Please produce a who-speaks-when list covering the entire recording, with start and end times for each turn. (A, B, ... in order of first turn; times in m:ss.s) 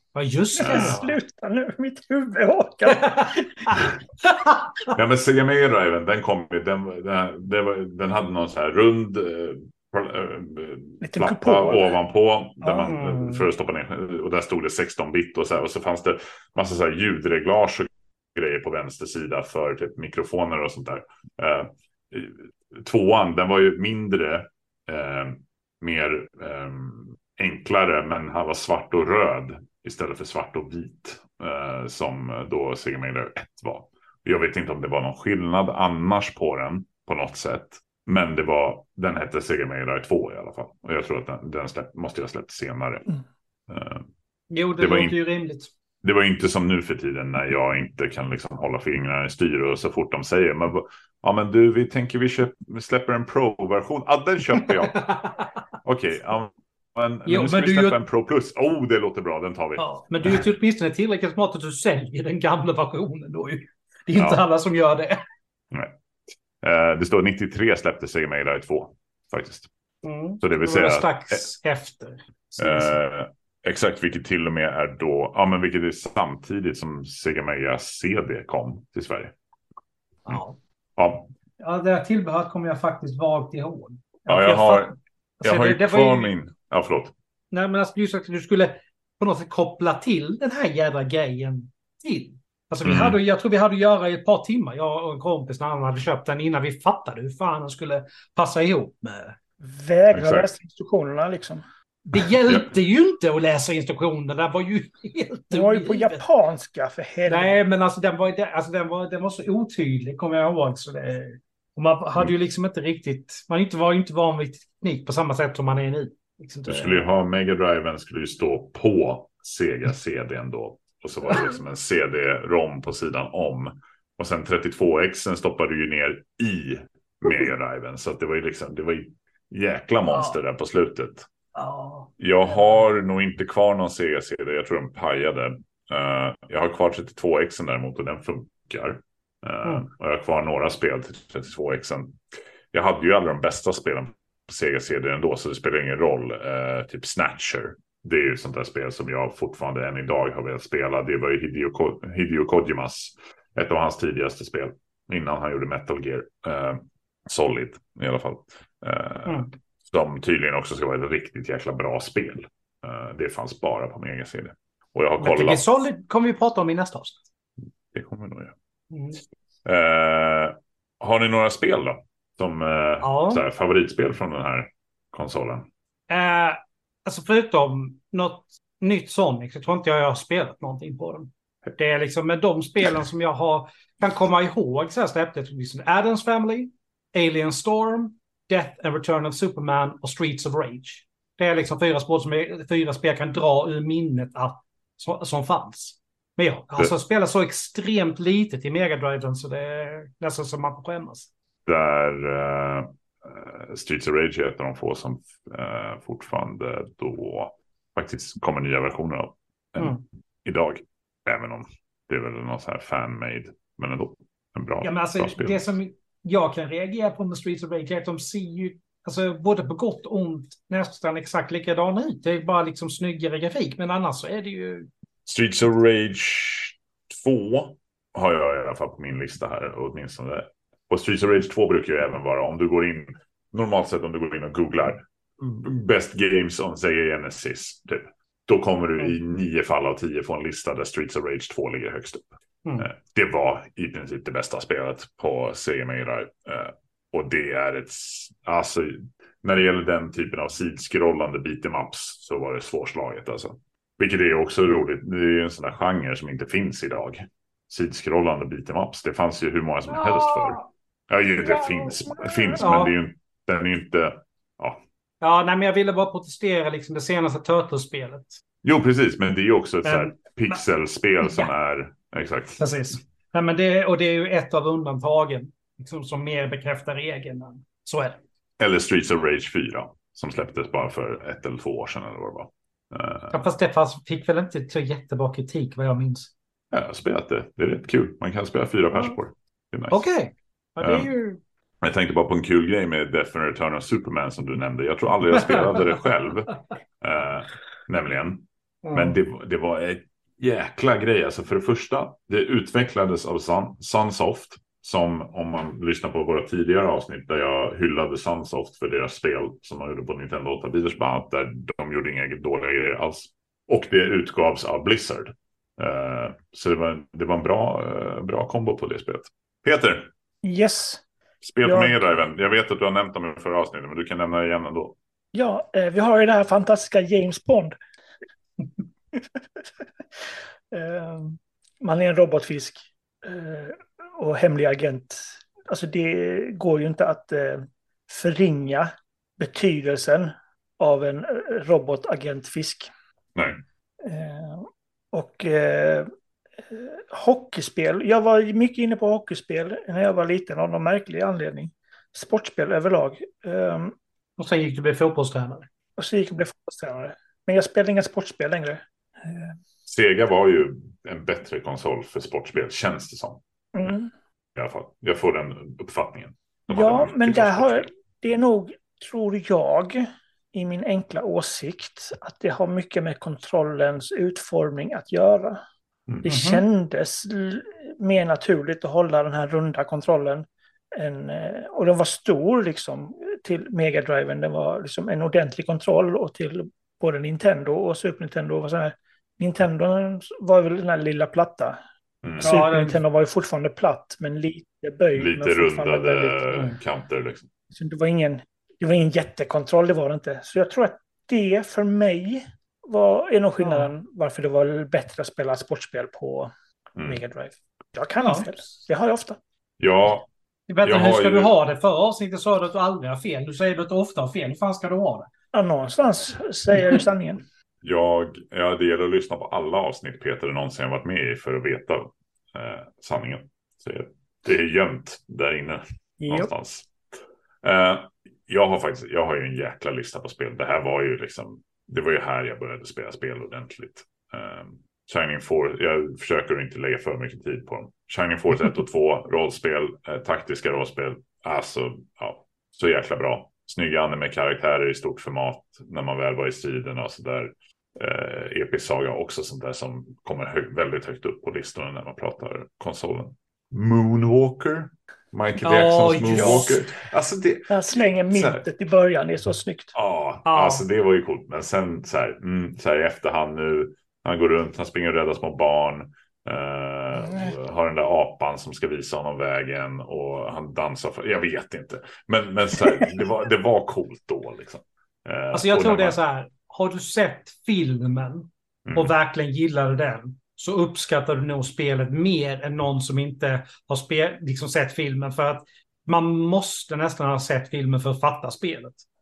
0:00.1-0:01.2 A
0:00.6-0:03.5 B
0:00.6-0:01.0 C
0:02.9-0:04.9 A
0:04.9-0:43.2 C
0:11.0-0:11.9 B
0:12.8-0:13.4 A
0:43.7-0:44.0 C
0:44.5-0:45.7 A
0:44.8-0:45.2 C
0:46.0-0:55.0 C
0:54.6-0:55.5 A
0:55.8-1:00.5 C
0:57.2-0:58.0 A
0:59.8-1:05.2 A
1:04.2-1:04.4 C
1:06.6-1:09.7 C
1:10.0-1:13.0 A
1:10.4-1:11.4 C
1:12.6-1:19.3 C
1:20.2-1:20.6 A
1:21.0-1:21.3 C
1:21.6-1:26.3 A
1:24.3-1:27.1 C
1:27.5-1:39.4 A
1:32.8-1:33.2 C
1:39.6-1:41.6 B
1:40.1-1:40.5 C
1:42.0-1:46.2 A
1:42.5-1:42.7 C
1:45.5-1:47.6 B
1:47.2-1:57.0 A
1:56.7-2:11.3 C
2:10.1-2:10.4 A
2:11.5-2:12.1 A
2:12.2-2:22.2 C
2:22.7-2:45.7 C
2:45.2-2:47.2 A
2:47.9-2:48.5 C
2:48.9-2:49.2 A
2:49.6-2:55.7 C
2:53.0-2:53.4 A
2:56.1-3:21.3 A
3:21.6-3:35.7 C
3:29.8-3:30.0 A
3:34.8-3:44.9 A
3:45.2-4:02.2 C
4:02.8-4:24.8 C
4:19.9-4:20.6 A
4:21.4-4:22.6 B
4:22.6-4:22.9 A
4:25.2-4:28.4 A
4:28.6-4:32.6 C
4:29.8-4:30.6 A
4:32.6-4:38.2 A
4:38.6-4:43.4 C
4:43.3-4:46.3 A
4:46.7-4:50.1 C
4:49.9-4:51.4 A
4:50.8-4:51.1 C
4:51.8-5:20.1 C
4:55.5-4:55.8 A
4:58.8-4:59.2 A
5:20.4-5:21.0 B
5:21.4-5:25.0 C
5:21.6-5:22.0 B
5:25.3-5:27.8 B
5:29.1-5:29.6 B
5:30.7-5:42.9 B
5:44.0-5:46.1 B
5:46.6-5:53.9 B
5:54.4-5:55.7 A
5:56.0-5:59.6 B
5:59.8-6:03.4 C
6:03.7-6:04.1 B
6:04.5-6:07.9 C
6:06.7-6:15.6 B
6:16.2-6:31.8 B
6:16.2-6:16.6 A
6:32.2-6:32.6 C
6:32.4-6:33.0 A
6:32.4-6:36.6 B
6:35.1-6:37.5 C
6:37.7-6:46.5 B
6:43.6-6:43.9 A
6:47.0-6:47.2 C
6:47.0-6:49.4 B
6:48.2-6:48.5 A
6:49.8-6:50.2 C
6:50.7-6:55.3 A
6:50.8-6:51.5 C
6:55.5-6:57.4 B
6:57.8-7:06.9 C
7:07.6-7:38.6 C
7:35.6-7:36.8 A
7:37.7-7:39.9 B
7:39.9-7:56.2 C
7:40.4-7:40.8 A
7:55.5-8:09.0 A
7:58.8-7:59.1 C